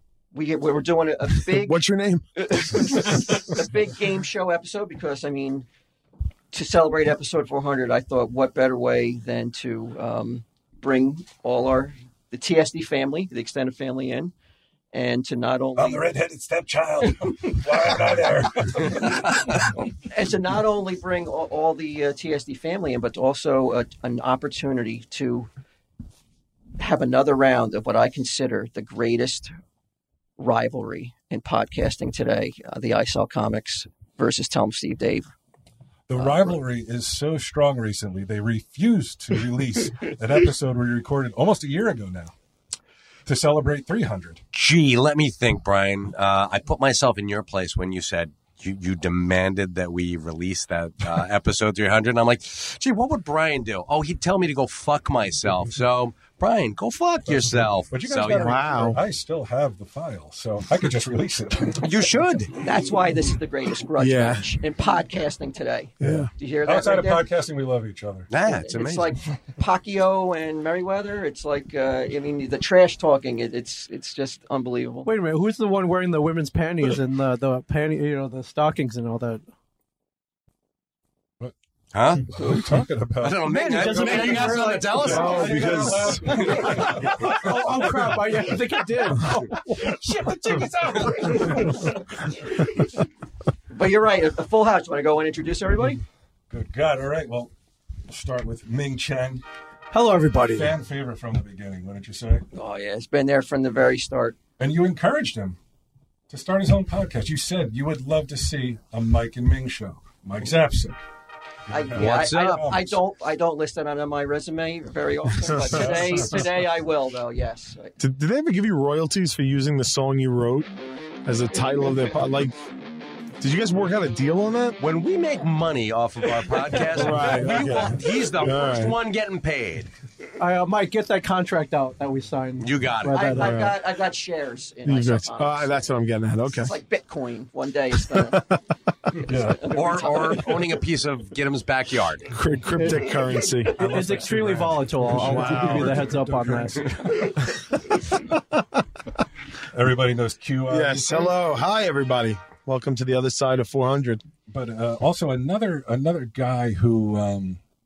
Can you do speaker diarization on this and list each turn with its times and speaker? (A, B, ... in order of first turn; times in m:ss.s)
0:00.3-0:01.8 A
0:01.6-0:02.2 B
0:02.4-0:05.7 A
0:06.5-0:14.3 A
0:14.9-0:16.1 A
0:15.8-0:19.7 C
0:20.0-0:25.5 A
0:26.8-0:29.5 A
0:30.4-0:35.3 A
0:36.1-0:42.3 C
0:36.2-0:36.6 A
0:43.2-0:44.4 C
0:44.5-0:58.8 D
0:57.2-1:01.9 C
0:58.3-0:59.0 B
1:01.8-1:07.2 A
1:01.8-1:02.4 D
1:04.0-1:04.5 B
1:06.0-1:06.3 B
1:06.6-1:08.3 C
1:08.3-1:09.1 D
1:08.4-1:15.1 A
1:15.0-1:19.4 E
1:21.9-1:22.4 D
1:22.3-1:28.4 C
1:23.2-1:25.8 D
1:23.4-1:25.9 E
1:25.0-1:26.5 B
1:26.5-1:29.8 E
1:29.8-1:31.7 C
1:33.7-1:36.0 A
1:36.5-1:37.5 C
1:38.1-1:39.4 C
1:39.9-1:40.7 E
1:40.5-1:42.4 C
1:42.5-1:44.4 A
1:44.6-1:45.6 C
1:46.3-1:51.0 C
1:51.7-1:52.9 C
1:51.7-1:57.9 A
1:51.9-1:52.8 D
1:55.4-1:56.4 B
1:55.7-1:56.4 C
1:58.0-2:00.7 B
2:01.2-2:02.6 B
2:03.4-2:04.8 B
2:04.8-2:09.9 D
2:06.9-2:09.0 B
2:10.4-2:13.6 E
2:12.6-2:13.4 D
2:13.1-2:15.9 A
2:13.4-2:13.7 B
2:14.8-2:16.8 B
2:16.5-2:18.4 A
2:19.2-2:19.8 C
2:19.6-2:20.4 A
2:19.6-2:22.3 D
2:22.3-2:23.8 B
2:22.8-2:23.0 E
2:23.8-2:27.2 E
2:23.8-2:27.4 C
2:25.2-2:26.0 B
2:29.7-2:31.4 C
2:30.7-2:34.2 B
2:34.5-2:37.6 C